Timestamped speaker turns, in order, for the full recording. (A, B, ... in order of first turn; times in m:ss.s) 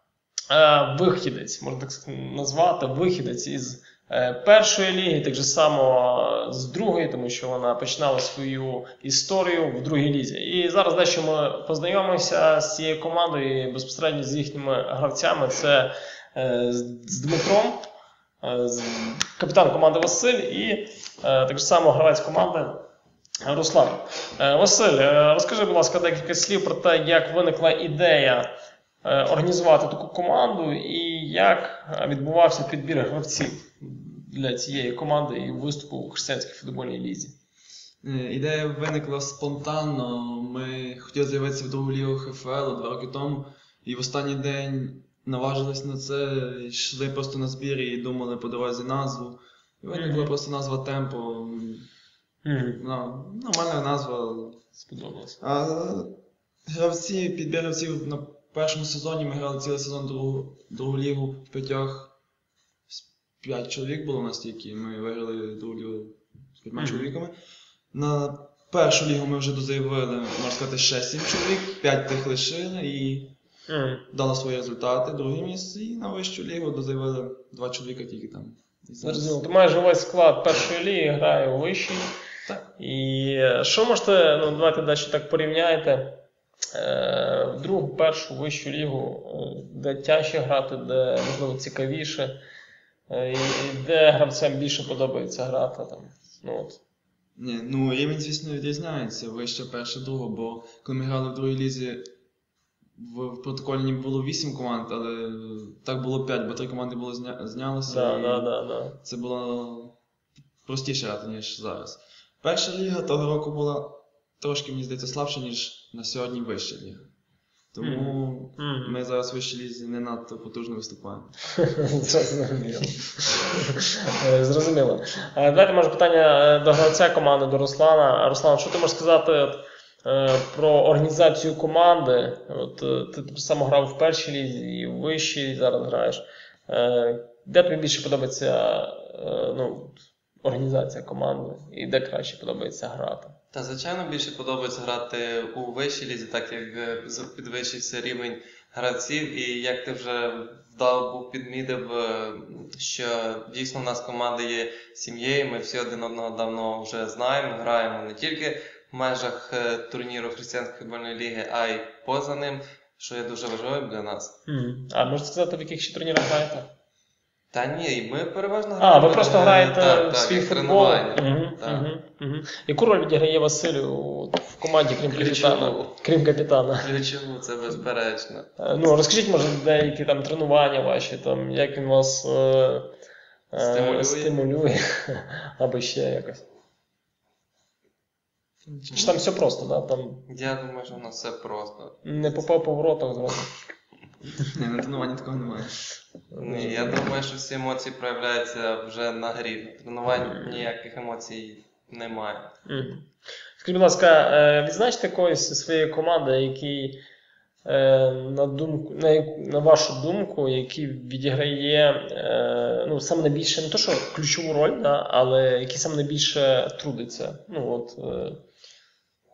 0:00.5-0:17.8 A
0:18.4-0:22.8 A
0:23.4-0:28.5 A
0:29.0-0:37.3 A
0:38.0-0:51.9 B
0:49.9-0:50.3 A
0:52.4-0:52.8 A
0:52.8-0:54.6 B
0:54.8-0:55.4 A
0:55.4-1:02.1 B
1:02.9-1:07.4 B
1:06.8-1:07.1 A
1:07.9-1:13.3 B
1:13.7-1:14.0 A
1:14.1-1:19.4 B
1:19.0-1:22.1 A
1:22.8-1:26.2 A
1:26.7-1:32.4 A
1:33.1-1:36.8 A
1:37.4-1:42.1 B
1:43.0-1:48.5 B
1:47.9-1:49.0 A
1:49.0-1:50.0 B
1:50.6-1:57.1 B
1:57.7-2:01.4 B
1:57.8-1:59.0 A
2:01.7-2:23.3 A
2:23.5-2:44.3 C
2:44.5-2:46.7 A
2:47.5-2:51.9 C
2:48.8-2:56.9 A
2:55.1-2:56.0 C
2:56.8-2:58.5 C
2:58.6-3:02.9 A
3:03.5-3:06.4 A
3:03.6-3:04.4 C
3:08.6-3:09.2 B
3:08.9-3:10.2 A
3:10.3-3:12.1 C
3:12.0-3:13.6 A
3:14.4-3:15.8 B
3:16.3-3:17.1 A
3:16.4-3:22.5 C
3:20.2-3:20.7 A
3:22.7-3:23.1 A
3:23.6-3:27.0 A
3:27.6-3:38.4 A